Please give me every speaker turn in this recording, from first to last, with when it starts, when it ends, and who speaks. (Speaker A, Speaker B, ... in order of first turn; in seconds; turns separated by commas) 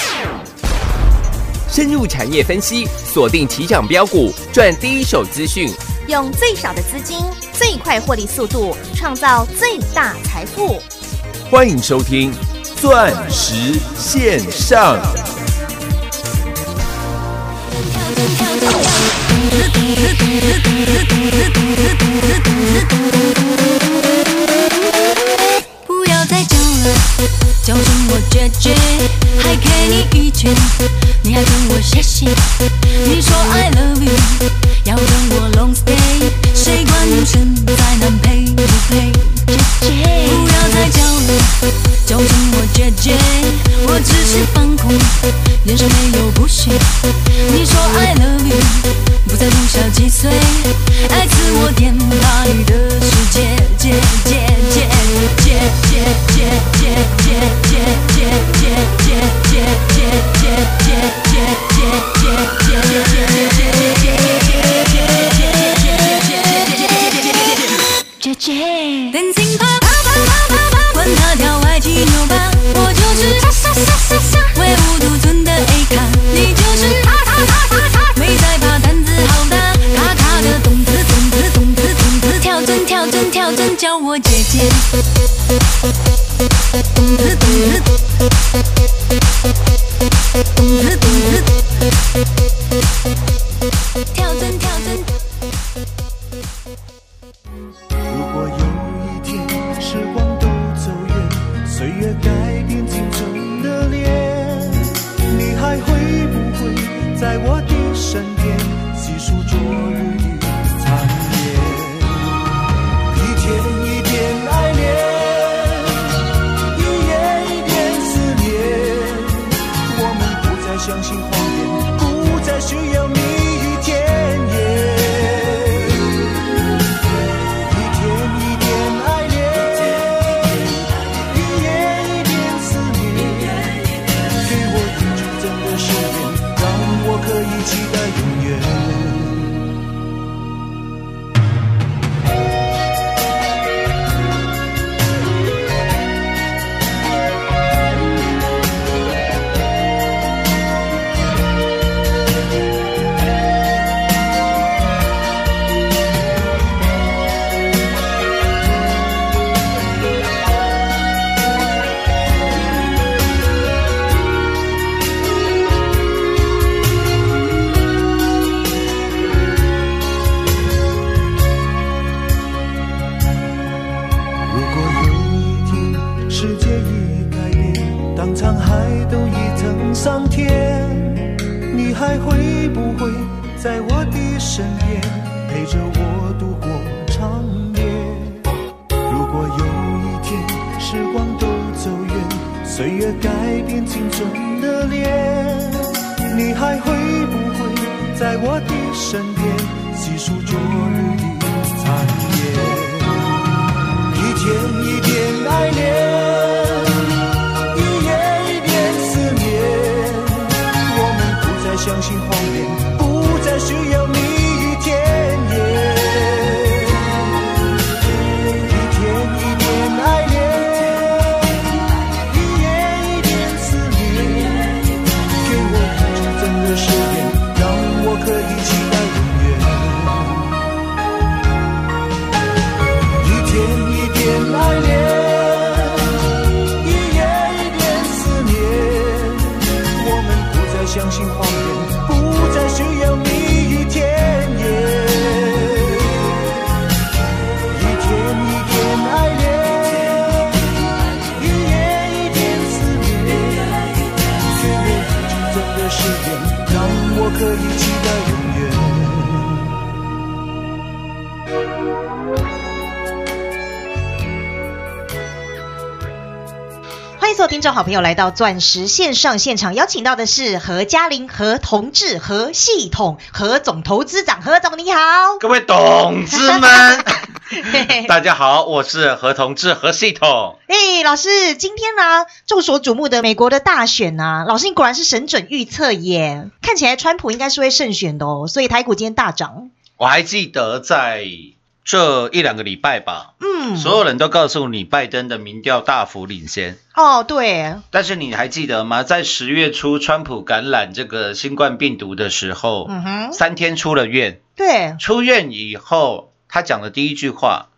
Speaker A: 1.7-5.9, Speaker B: 6.0-10.9, Speaker A: 11.5-15.2, Speaker C: 17.7-23.3, Speaker C: 24.8-27.1, Speaker C: 27.6-32.5, Speaker C: 33.0-84.9, Speaker C: 86.9-88.0, Speaker C: 90.5-91.5, Speaker C: 94.1-95.1, Speaker D: 98.1-112.4, Speaker D: 113.1-116.2, Speaker D: 116.7-126.2, Speaker D: 127.6-133.8, Speaker D: 134.3-139.6, Speaker D: 174.5-188.4, Speaker D: 189.1-203.4, Speaker D: 204.1-207.1, Speaker D: 207.7-217.2, Speaker D: 218.6-224.8, Speaker D: 225.4-230.5, Speaker D: 233.2-236.3, Speaker D: 236.8-246.4, Speaker D: 247.7-250.7, Speaker D: 251.3-253.9, Speaker D: 254.5-259.8, Speaker E: 267.2-275.4, Speaker F: 275.4-280.6, Speaker E: 276.4-278.1, Speaker E: 280.7-289.7, Speaker F: 290.0-296.8, Speaker E: 293.4-294.0, Speaker E: 296.9-297.8, Speaker F: 297.9-304.4, Speaker E: 302.9-303.4, Speaker E: 304.6-305.0, Speaker F: 305.0-307.7